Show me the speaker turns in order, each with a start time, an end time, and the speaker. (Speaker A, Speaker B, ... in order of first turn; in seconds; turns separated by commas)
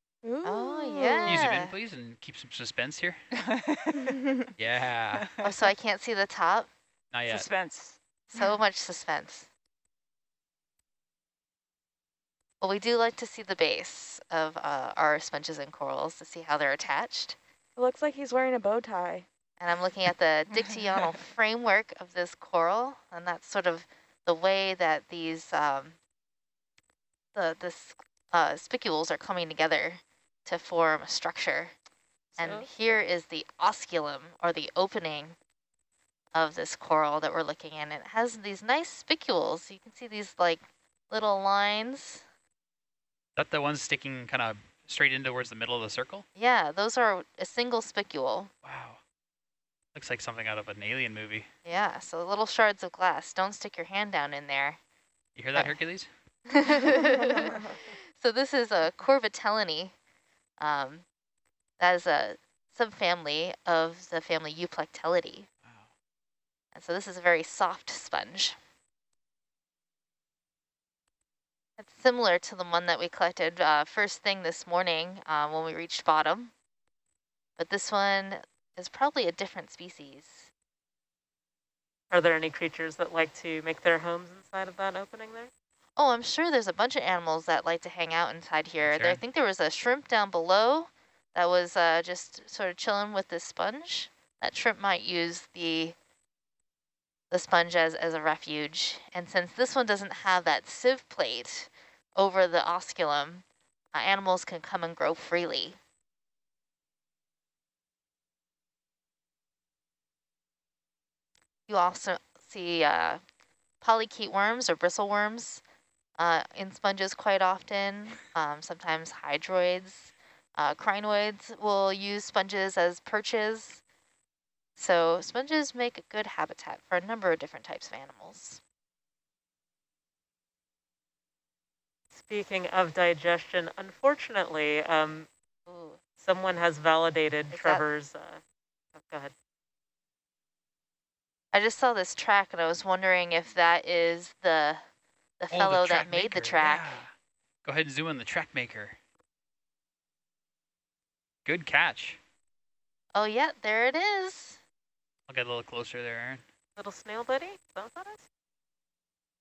Speaker A: 0.2-1.4, Speaker B: 0.4-1.7, Speaker C: 1.2-3.2, Speaker D: 3.4-4.1, Speaker A: 4.0-4.5, Speaker C: 4.6-5.3, Speaker D: 5.1-5.5, Speaker B: 5.4-6.7, Speaker C: 7.1-7.5, Speaker D: 7.3-8.0, Speaker B: 8.3-9.5, Speaker B: 12.6-17.4, Speaker A: 17.8-19.2, Speaker B: 19.6-26.0, Speaker B: 27.3-31.7, Speaker D: 32.3-33.0, Speaker B: 32.4-35.4, Speaker B: 36.3-42.2, Speaker C: 43.4-46.2, Speaker B: 46.4-48.5, Speaker C: 48.6-49.0, Speaker C: 49.9-51.5, Speaker B: 51.6-54.8, Speaker C: 55.4-56.1, Speaker B: 56.5-59.9, Speaker A: 57.3-57.7, Speaker B: 60.6-61.0, Speaker B: 61.8-65.5, Speaker B: 66.7-68.6, Speaker B: 71.8-76.5, Speaker B: 77.6-80.5, Speaker E: 82.1-85.5, Speaker B: 86.0-95.9, Speaker C: 88.9-89.2, Speaker B: 97.3-105.8, Speaker B: 111.7-113.2, Speaker B: 113.8-115.6, Speaker B: 116.2-123.8, Speaker B: 124.8-128.6, Speaker E: 132.1-135.3, Speaker B: 135.7-136.0, Speaker E: 136.2-138.4, Speaker B: 137.5-137.8, Speaker E: 138.9-139.3, Speaker B: 141.5-144.8, Speaker B: 145.4-147.0, Speaker C: 145.5-147.1, Speaker C: 147.6-148.9, Speaker C: 151.4-152.2, Speaker B: 153.1-154.6, Speaker C: 155.3-156.4, Speaker E: 156.8-158.2